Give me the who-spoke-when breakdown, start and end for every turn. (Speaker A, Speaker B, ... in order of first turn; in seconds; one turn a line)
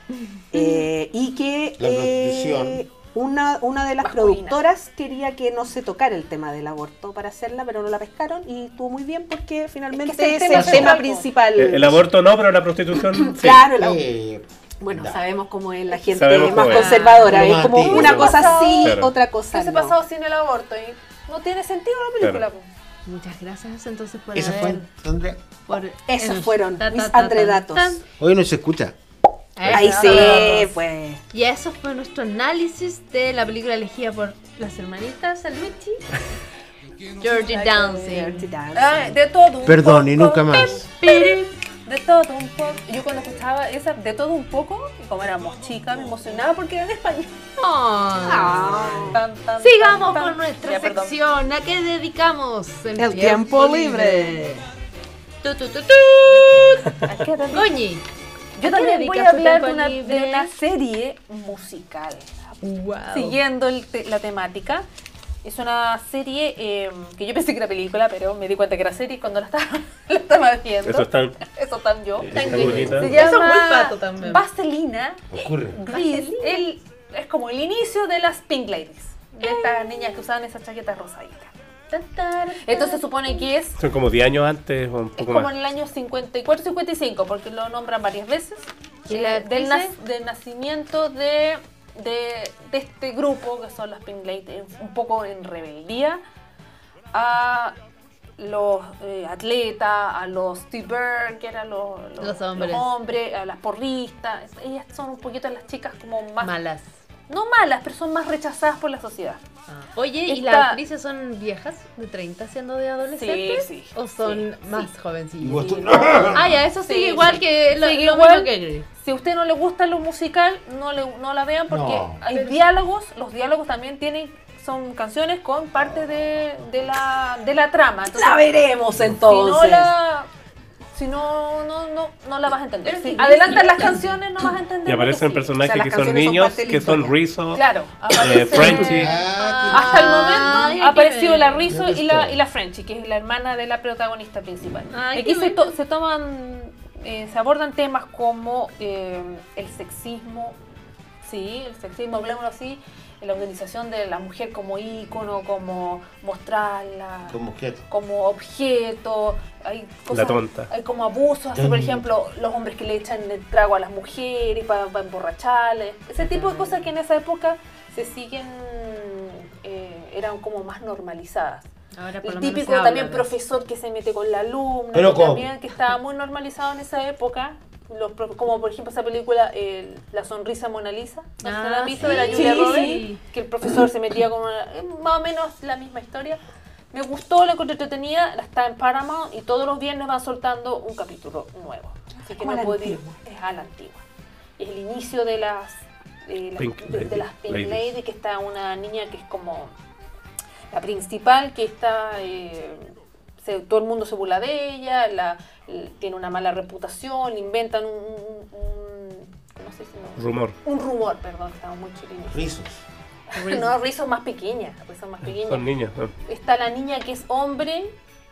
Speaker A: 0.1-0.8
Speaker B: 0.5-12.1
Speaker C: 1.8-2.8
Speaker D: 4.0-4.6
Speaker D: 9.9-11.3
Speaker C: 10.5-11.0
Speaker E: 11.6-13.7
Speaker B: 13.0-14.0
Speaker C: 13.7-15.2
Speaker B: 14.8-20.0
Speaker E: 16.1-17.0
Speaker D: 16.3-17.1
Speaker A: 16.6-17.6
Speaker C: 17.3-18.6
Speaker D: 17.7-22.7
Speaker E: 18.8-19.1
Speaker A: 23.1-24.9
Speaker C: 24.3-25.4
Speaker A: 25.7-28.0
Speaker B: 26.1-28.0
Speaker C: 28.2-29.0
Speaker A: 29.6-30.7
Speaker B: 29.7-31.2
Speaker D: 29.7-30.7
Speaker A: 31.3-36.1
Speaker A: 37.2-38.5
Speaker D: 37.4-47.4
Speaker B: 38.1-39.2
Speaker C: 39.6-40.9
Speaker A: 40.6-41.6
Speaker A: 47.6-54.7
Speaker B: 48.2-49.2
Speaker D: 48.5-51.2
Speaker B: 53.0-54.5
Speaker A: 55.4-58.0
Speaker D: 57.0-57.9
Speaker D: 58.6-62.5
Speaker A: 58.6-60.5
Speaker A: 62.6-63.4
Speaker D: 63.1-64.8
Speaker D: 65.4-81.5
Speaker E: 70.8-71.4
Speaker C: 72.3-73.2
Speaker E: 72.3-73.2
Speaker A: 72.3-74.5
Speaker C: 75.3-75.8
Speaker A: 75.9-76.7
Speaker A: 79.4-80.2
Speaker A: 81.9-83.4
Speaker D: 82.6-83.8
Speaker E: 83.8-85.5
Speaker D: 85.2-96.2
Speaker A: 89.1-90.0
Speaker D: 97.1-97.8
Speaker D: 98.4-106.5
Speaker A: 102.2-102.9
Speaker A: 106.4-106.9
Speaker D: 107.3-109.4
Speaker A: 109.7-118.9
Speaker D: 110.3-110.8
Speaker D: 113.2-114.9
Speaker C: 115.4-116.7
Speaker D: 115.5-116.3
Speaker D: 116.8-128.5
Speaker C: 121.7-122.2
Speaker A: 122.3-122.6
Speaker B: 128.1-129.9
Speaker D: 129.2-130.3
Speaker D: 130.9-135.5
Speaker B: 132.8-134.0
Speaker A: 133.0-133.9
Speaker E: 134.8-139.2
Speaker B: 135.6-137.2
Speaker D: 137.5-150.6
Speaker C: 138.5-140.4
Speaker A: 139.1-141.7
Speaker C: 141.7-142.4
Speaker A: 144.9-145.7
Speaker D: 151.2-171.7
Speaker C: 157.3-157.9
Speaker E: 160.1-160.7
Speaker C: 161.5-162.1
Speaker A: 166.3-166.8
Speaker A: 171.9-173.3
Speaker D: 172.2-186.4
Speaker C: 174.9-175.5
Speaker A: 181.4-183.2
Speaker B: 182.3-183.0
Speaker D: 186.9-194.0
Speaker B: 192.3-193.2
Speaker D: 194.6-199.7
Speaker E: 196.6-197.9
Speaker D: 200.7-212.4
Speaker E: 210.2-210.6
Speaker C: 212.3-212.8
Speaker D: 213.3-215.6
Speaker A: 213.3-213.7
Speaker E: 215.3-216.1
Speaker D: 216.3-217.9